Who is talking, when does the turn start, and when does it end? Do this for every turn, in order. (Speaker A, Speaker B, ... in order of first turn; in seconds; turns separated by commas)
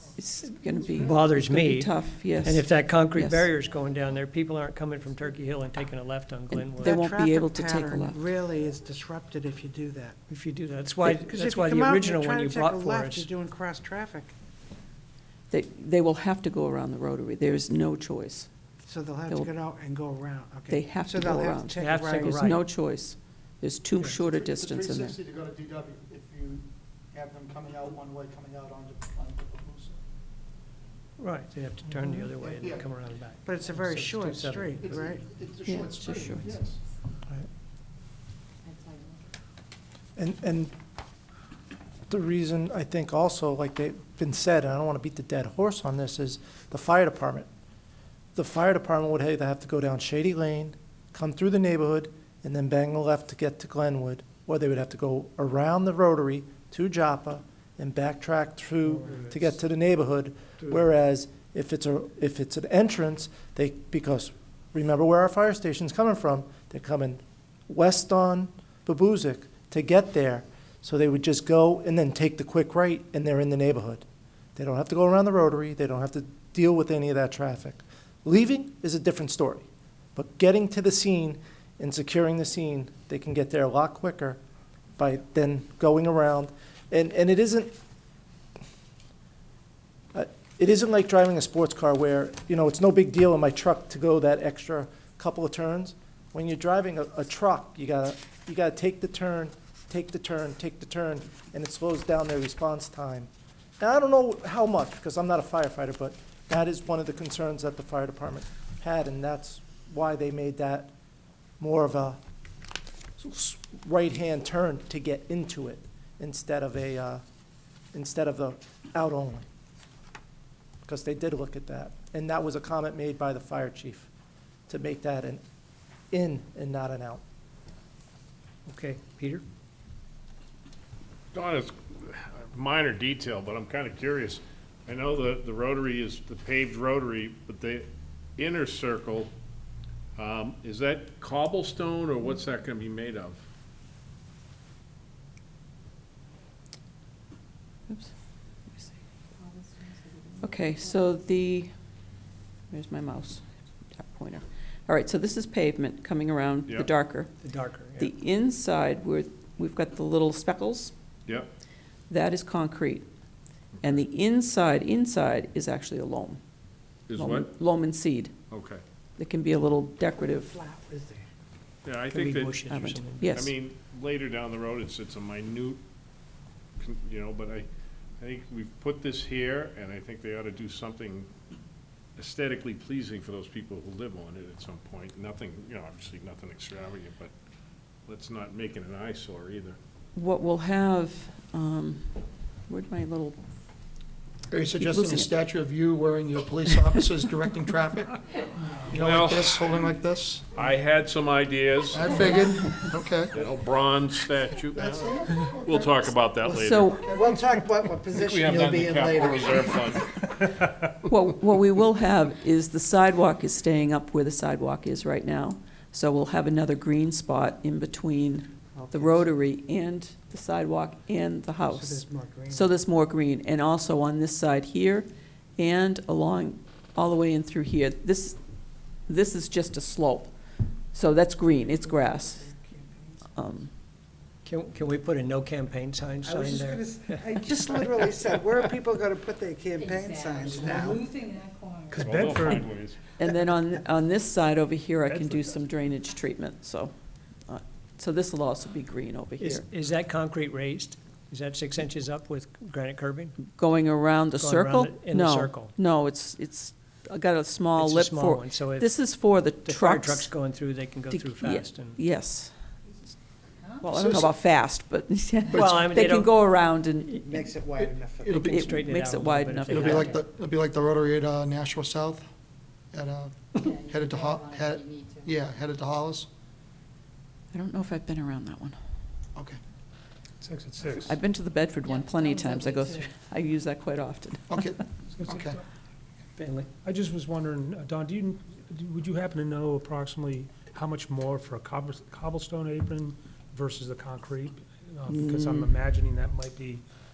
Speaker A: 0.2-3.5, Speaker B: 1.0-6.9, Speaker A: 6.8-8.2, Speaker C: 6.8-10.2, Speaker B: 10.3-13.3, Speaker C: 11.0-14.3, Speaker A: 15.5-18.5, Speaker C: 18.8-22.5, Speaker A: 20.7-25.2, Speaker B: 21.8-22.6, Speaker D: 24.0-30.0, Speaker B: 31.2-34.9, Speaker D: 32.4-32.8, Speaker C: 33.4-35.2, Speaker D: 34.8-36.8, Speaker A: 35.6-36.5, Speaker E: 38.7-39.2, Speaker F: 40.1-40.7, Speaker F: 42.1-47.5, Speaker F: 48.3-74.0, Speaker F: 74.5-84.4, Speaker F: 85.0-87.7, Speaker F: 90.1-110.9, Speaker F: 111.6-112.2, Speaker F: 113.2-117.2, Speaker F: 117.9-119.4, Speaker F: 120.8-124.1, Speaker F: 124.7-125.4, Speaker F: 126.1-127.2, Speaker B: 128.7-129.4, Speaker G: 131.3-139.3, Speaker G: 140.2-143.4, Speaker A: 147.9-148.1, Speaker A: 148.7-148.9, Speaker E: 149.4-150.9, Speaker A: 150.4-151.7, Speaker A: 152.7-160.9, Speaker G: 156.7-156.9, Speaker B: 157.4-158.1, Speaker G: 161.2-161.5, Speaker A: 162.1-163.1, Speaker A: 163.8-166.4, Speaker G: 167.1-167.5, Speaker A: 167.1-168.4, Speaker G: 168.5-168.8, Speaker A: 169.2-170.6, Speaker C: 170.3-171.3, Speaker G: 171.8-172.6, Speaker B: 172.1-173.5, Speaker A: 172.7-173.5, Speaker G: 173.3-175.8, Speaker G: 176.8-177.7, Speaker G: 178.2-181.3, Speaker G: 182.2-187.3, Speaker G: 188.1-189.8, Speaker A: 190.1-193.4, Speaker D: 194.5-200.6, Speaker A: 194.7-195.4, Speaker A: 196.7-197.0, Speaker G: 199.0-199.7, Speaker G: 200.5-202.1, Speaker D: 201.9-203.4, Speaker G: 203.3-207.0, Speaker D: 204.7-207.4, Speaker A: 206.7-207.0, Speaker C: 207.0-209.9, Speaker G: 208.1-210.7, Speaker A: 211.1-232.5, Speaker C: 218.7-219.3, Speaker C: 221.6-222.7, Speaker C: 231.8-233.2, Speaker A: 233.3-233.7, Speaker B: 234.4-237.8, Speaker C: 236.2-241.2, Speaker E: 239.8-242.6, Speaker H: 241.9-242.7, Speaker G: 242.0-243.0, Speaker A: 243.2-246.9, Speaker A: 247.4-249.7, Speaker B: 249.4-253.4, Speaker A: 253.4-260.4, Speaker B: 254.4-255.7, Speaker B: 257.7-262.0, Speaker A: 261.1-262.6, Speaker A: 263.8-267.2, Speaker D: 263.9-264.4, Speaker D: 265.5-265.9, Speaker B: 265.5-266.3, Speaker C: 267.2-268.5, Speaker D: 267.8-268.6, Speaker B: 268.3-270.2, Speaker A: 268.5-270.1, Speaker D: 269.7-272.2, Speaker D: 272.9-276.3, Speaker E: 273.6-275.3, Speaker A: 277.5-278.8, Speaker H: 280.4-281.1, Speaker A: 281.0-284.8, Speaker E: 281.9-283.1, Speaker D: 284.5-285.6, Speaker H: 285.1-285.6, Speaker B: 286.4-286.7, Speaker H: 286.8-296.8, Speaker A: 295.1-295.7